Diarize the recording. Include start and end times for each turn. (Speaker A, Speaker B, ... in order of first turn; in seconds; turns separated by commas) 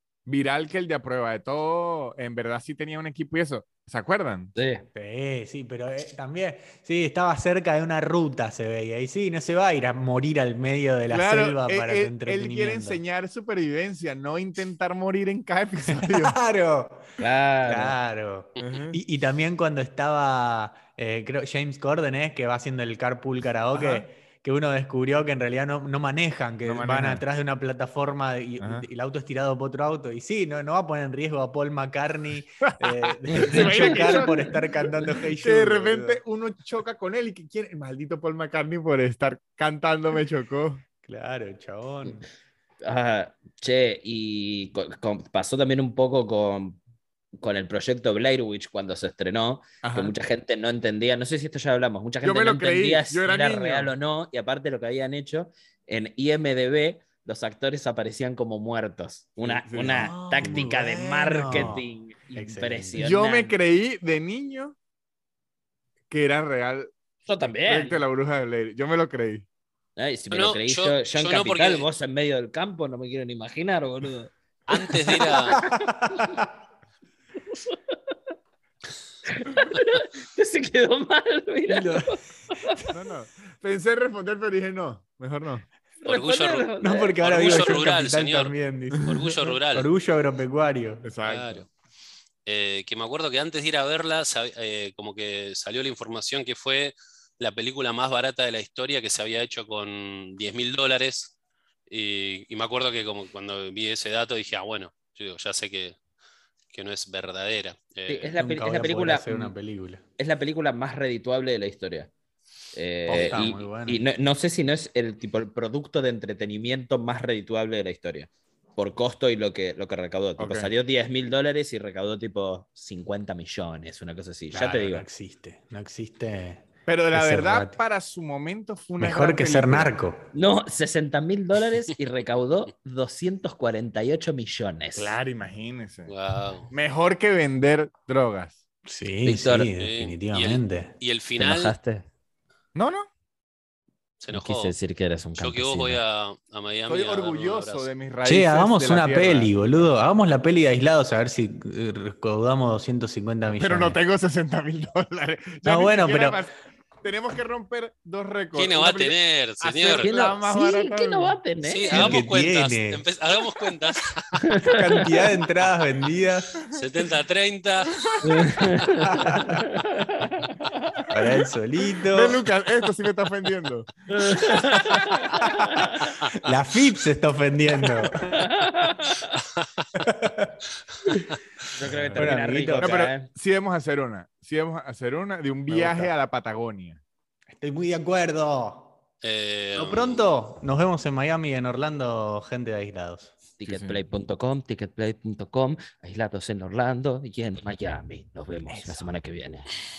Speaker A: 0.2-4.5, Speaker B: 4.5-4.8, Speaker C: 4.9-13.0, Speaker A: 11.1-16.4, Speaker C: 15.9-17.1, Speaker B: 17.2-17.9, Speaker C: 17.6-36.2, Speaker D: 18.6-18.8, Speaker A: 18.6-19.0, Speaker A: 23.7-24.1, Speaker A: 26.6-27.2, Speaker A: 28.6-28.9, Speaker A: 32.8-34.6, Speaker B: 33.3-34.4, Speaker A: 35.3-40.8, Speaker C: 41.0-42.2, Speaker B: 42.8-46.8, Speaker B: 47.4-63.6, Speaker A: 49.8-50.1, Speaker A: 52.2-53.9, Speaker A: 59.4-60.8, Speaker C: 59.8-63.0, Speaker A: 61.5-61.8, Speaker A: 63.0-64.8, Speaker A: 66.1-69.5, Speaker B: 67.3-68.0, Speaker B: 70.0-74.3, Speaker D: 70.3-71.8, Speaker D: 74.7-75.6, Speaker B: 75.0-76.4, Speaker C: 75.2-76.4, Speaker B: 77.5-78.0, Speaker B: 79.3-82.8, Speaker C: 81.7-82.2, Speaker A: 82.9-85.7, Speaker D: 86.0-86.6, Speaker B: 86.0-87.2, Speaker C: 86.8-91.0, Speaker D: 87.2-89.9, Speaker A: 88.9-89.3, Speaker A: 91.0-91.6, Speaker D: 91.2-91.7, Speaker D: 92.4-101.3, Speaker D: 101.9-106.0, Speaker D: 106.7-108.3, Speaker B: 108.1-109.5, Speaker C: 108.4-110.0, Speaker B: 110.2-112.1, Speaker B: 112.7-125.0, Speaker C: 113.1-114.0, Speaker A: 120.4-120.7, Speaker C: 124.5-127.8, Speaker A: 126.9-129.9, Speaker C: 129.0-130.2, Speaker B: 130.3-135.2, Speaker A: 134.9-136.1, Speaker D: 136.1-136.7, Speaker A: 136.7-138.6, Speaker C: 138.8-140.9, Speaker B: 139.2-139.7, Speaker D: 139.8-141.7, Speaker B: 141.4-142.1, Speaker A: 142.7-143.1, Speaker D: 144.2-144.7, Speaker B: 144.3-146.0, Speaker D: 145.4-147.9, Speaker A: 146.9-149.5, Speaker C: 148.2-154.0, Speaker A: 153.6-161.4, Speaker C: 155.6-156.4, Speaker D: 158.5-160.1, Speaker B: 160.0-162.2, Speaker D: 161.6-164.4, Speaker C: 161.9-163.0, Speaker B: 164.4-165.2, Speaker C: 164.6-166.6, Speaker D: 166.7-167.9, Speaker A: 167.9-168.4, Speaker B: 168.2-170.7, Speaker C: 169.1-169.6, Speaker C: 171.1-172.4, Speaker A: 172.1-175.4, Speaker B: 174.1-176.0, Speaker C: 175.4-175.8, Speaker C: 176.4-178.3, Speaker B: 178.3-179.4, Speaker C: 180.0-180.6, Speaker B: 181.7-183.3, Speaker A: 182.0-187.0, Speaker C: 182.1-182.9, Speaker B: 185.7-186.1, Speaker C: 187.5-188.9, Speaker D: 189.2-190.2, Speaker C: 189.7-193.3, Speaker B: 193.6-199.7, Speaker A: 193.7-194.0, Speaker C: 198.7-199.1